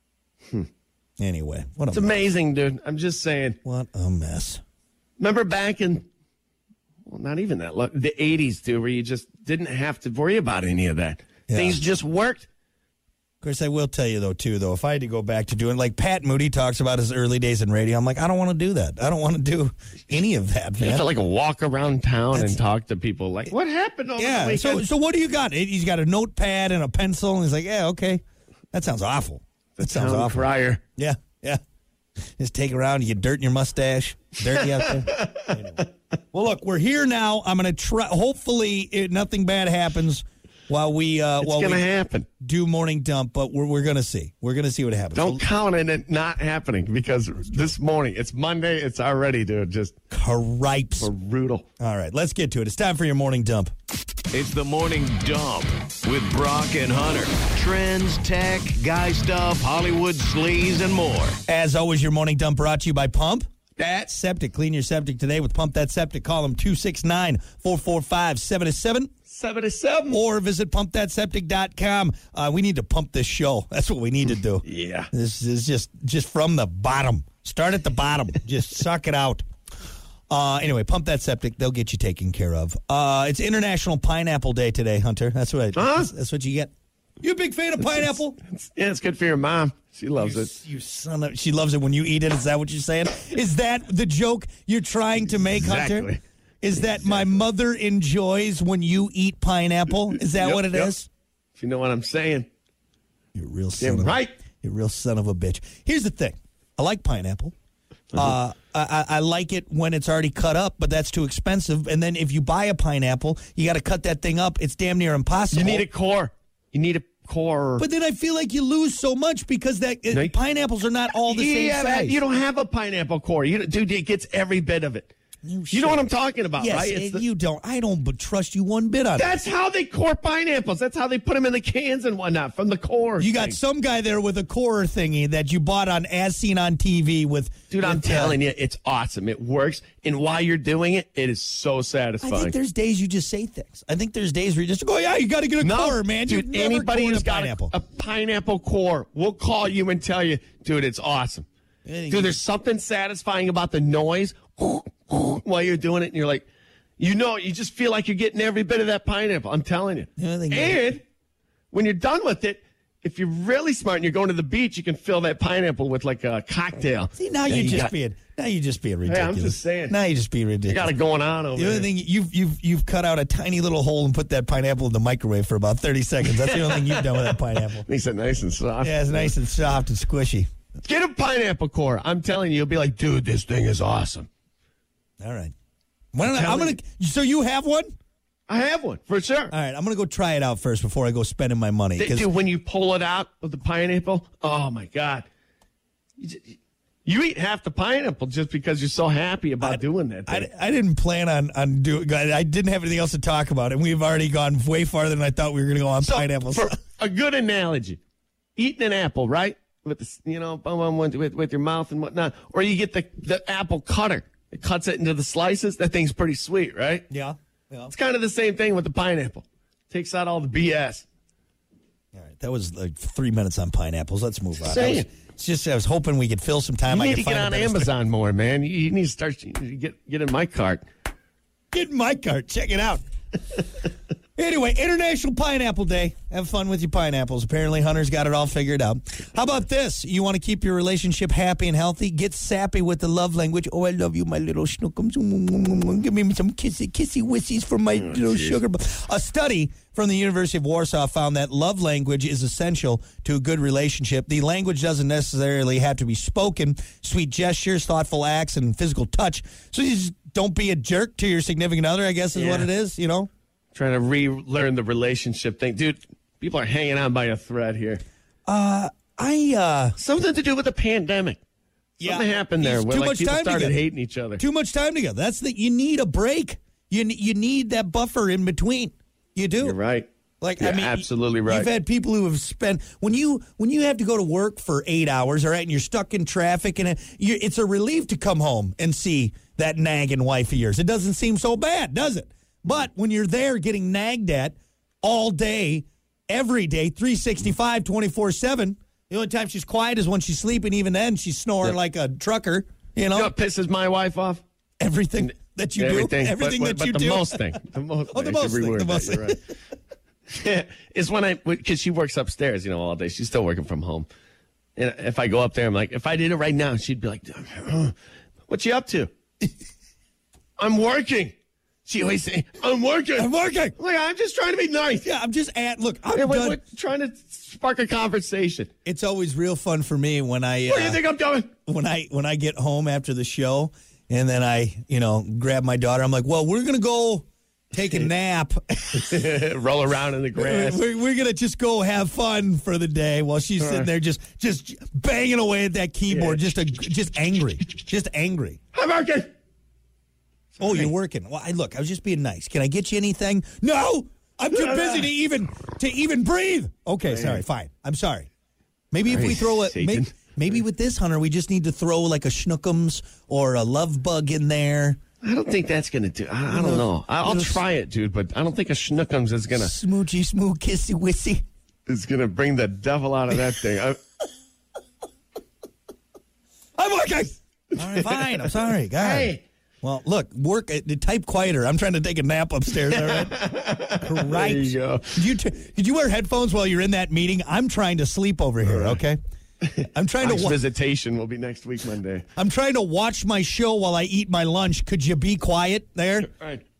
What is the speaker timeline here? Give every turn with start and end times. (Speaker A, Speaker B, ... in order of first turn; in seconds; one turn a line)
Speaker A: 1.2-2.1
Speaker B: 1.9-3.6
Speaker A: 3.6-4.6
Speaker B: 5.2-6.1
Speaker B: 7.0-12.5
Speaker A: 11.5-11.8
Speaker A: 13.4-21.1
Speaker B: 20.8-24.8
Speaker A: 22.3-22.6
Speaker A: 24.2-28.2
Speaker A: 28.7-31.6
Speaker B: 29.8-30.8
Speaker A: 32.4-41.9
Speaker B: 34.6-35.8
Speaker B: 41.4-42.2
Speaker A: 42.4-45.4
Speaker B: 45.1-49.9
Speaker A: 50.1-51.1
Speaker B: 51.0-51.6
Speaker A: 51.8-53.7
Speaker C: 54.3-61.4
Speaker A: 61.5-63.4
Speaker B: 63.8-64.1
Speaker A: 64.1-69.1
Speaker B: 69.3-70.2
Speaker A: 70.1-79.4
Speaker B: 74.6-75.1
Speaker A: 80.3-86.7
Speaker B: 85.7-86.1
Speaker A: 87.2-88.4
Speaker B: 87.8-90.5
Speaker A: 90.2-96.1
Speaker B: 95.5-96.2
Speaker A: 96.6-101.1
Speaker B: 96.8-97.4
Speaker B: 100.1-100.9
Speaker B: 101.5-102.5
Speaker A: 103.3-107.5
Speaker B: 103.8-104.3
Speaker A: 108.1-115.8
Speaker B: 115.5-117.8
Speaker A: 117.8-122.2
Speaker B: 121.2-125.1
Speaker A: 125.4-129.4
Speaker B: 125.7-127.2
Speaker B: 129.2-133.6
Speaker A: 133.2-138.4
Speaker B: 137.7-142.6
Speaker A: 142.2-147.7
Speaker B: 145.6-151.5
Speaker A: 151.8-152.4
Speaker B: 152.1-156.4
Speaker B: 157.0-161.0
Speaker A: 160.2-160.8
Speaker B: 161.7-167.9
Speaker A: 167.2-170.9
Speaker B: 169.1-169.9
Speaker B: 170.7-171.9
Speaker A: 171.6-177.8
Speaker B: 176.2-179.3
Speaker A: 178.8-180.5
Speaker B: 180.8-184.3
Speaker A: 185.2-185.5
Speaker A: 186.1-187.9
Speaker B: 186.2-186.8
Speaker B: 188.5-189.5
Speaker A: 189.5-192.3
Speaker B: 192.0-195.3
Speaker B: 196.2-200.5
Speaker A: 199.6-206.7
Speaker B: 206.0-208.0
Speaker B: 208.6-217.1
Speaker A: 217.1-217.9
Speaker B: 217.9-221.1
Speaker A: 222.1-227.9
Speaker B: 224.6-225.1
Speaker B: 226.9-230.8
Speaker A: 231.7-233.0
Speaker A: 234.4-263.3
Speaker B: 248.0-248.6
Speaker B: 262.3-262.7
Speaker B: 263.7-268.0
Speaker A: 268.5-269.9
Speaker B: 270.0-271.4
Speaker A: 272.0-273.8
Speaker B: 272.0-274.4
Speaker A: 274.4-279.7
Speaker B: 279.6-280.1
Speaker A: 280.4-303.3
Speaker B: 280.6-281.7
Speaker B: 303.1-304.4
Speaker A: 304.8-307.6
Speaker B: 305.2-309.4
Speaker A: 308.1-309.4
Speaker B: 310.3-314.1
Speaker B: 314.8-317.9
Speaker B: 318.5-319.1
Speaker B: 320.6-321.3
Speaker B: 321.8-325.1
Speaker A: 323.1-323.7
Speaker A: 325.0-326.6
Speaker B: 326.1-328.7
Speaker A: 328.9-331.0
Speaker B: 330.6-331.5
Speaker A: 331.6-339.2
Speaker B: 338.9-340.8
Speaker A: 340.4-348.6
Speaker B: 343.6-343.9
Speaker B: 346.1-346.4
Speaker B: 348.7-349.3
Speaker A: 350.6-358.3
Speaker B: 350.6-350.9
Speaker B: 354.6-355.0
Speaker B: 357.1-357.4
Speaker A: 358.9-365.0
Speaker B: 359.1-360.1
Speaker B: 365.2-369.7
Speaker A: 366.5-367.6
Speaker A: 369.5-371.4
Speaker B: 371.9-374.0
Speaker A: 376.8-379.3
Speaker B: 377.8-379.4
Speaker A: 379.8-383.4
Speaker B: 382.9-385.2
Speaker A: 384.0-389.2
Speaker B: 388.6-389.0
Speaker B: 389.6-392.2
Speaker A: 389.8-390.6
Speaker A: 392.4-396.3
Speaker B: 396.2-396.6